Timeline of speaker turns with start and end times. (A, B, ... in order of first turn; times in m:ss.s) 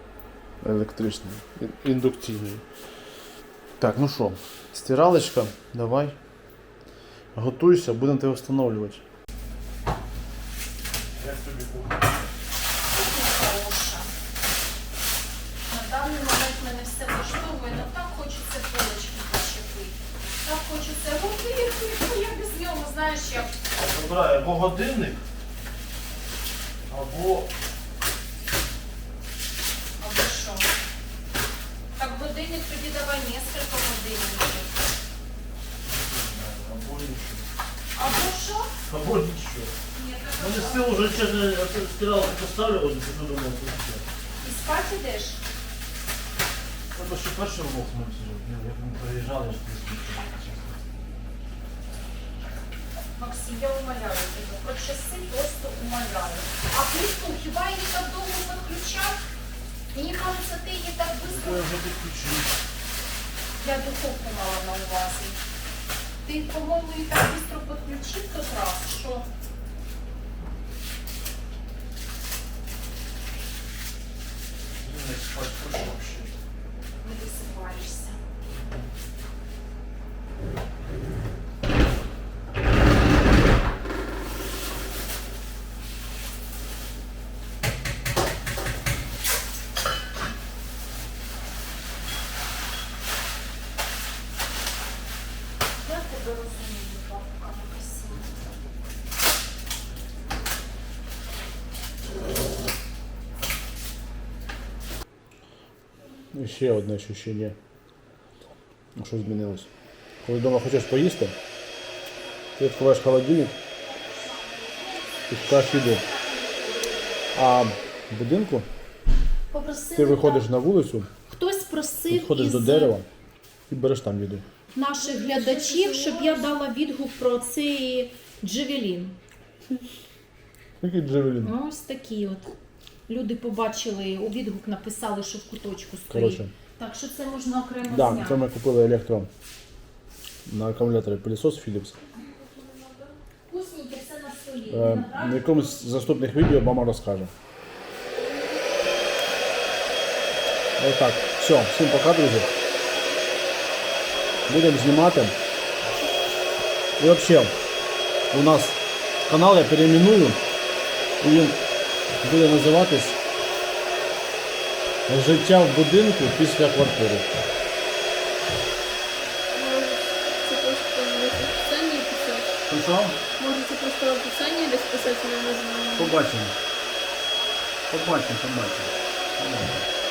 0:00.6-0:02.6 A
0:03.8-0:06.2 A
0:07.4-0:09.0 A
0:11.2-0:12.1 A
0:12.9-0:14.1 B
0:15.7-0:23.5 B
0:23.8-0:25.2 A
0:26.9-0:27.5 A
0:30.0-0:30.7 B
0:32.0-0:34.9 B
0:35.8-0:37.5 A
0:38.0-0:38.7 B
0:38.9-0:39.7 A
0:39.9-0:41.1 B
0:40.4-0:44.1 A
0:44.4-0:45.4 B
0:46.9-0:50.8 A
0:53.2-0:59.2 B
0:59.9-1:01.7 B
1:01.2-1:02.5 A
1:03.6-1:05.4 B
1:06.2-1:09.3 B
1:14.8-1:16.3 A
1:17.0-1:18.2 B
1:35.8-1:38.3 B
1:46.3-1:47.6 A
1:49.0-1:49.7 A
1:50.2-1:51.4 A
1:52.6-1:53.6 A
1:54.2-1:56.9 B
1:55.3-1:56.0 A
1:57.3-1:58.7 A
1:59.5-2:00.4 B
2:00.0-2:01.1 A
2:01.3-2:03.0 B
2:02.1-2:03.1 A
2:03.7-2:04.4 A
2:04.7-2:09.2 B
2:05.2-2:06.3 C
2:10.8-2:11.6 A
2:11.4-2:12.5 B
2:13.1-2:18.4 B
2:16.1-2:16.5 A
2:17.8-2:19.3 A
2:20.5-2:22.0 A
2:22.3-2:23.1 C
2:23.5-2:25.8 B
2:24.7-2:27.3 A
2:30.8-2:32.5 A
2:34.5-2:35.4 A
2:37.0-2:37.5 A
2:38.3-2:40.4 A
2:41.2-2:41.6 A
2:42.2-2:43.2 A
2:45.1-2:47.3 A
2:49.5-2:52.5 C
2:52.7-2:53.2 A
2:53.4-2:56.2 C
2:56.0-2:56.6 A
2:57.9-2:59.9 A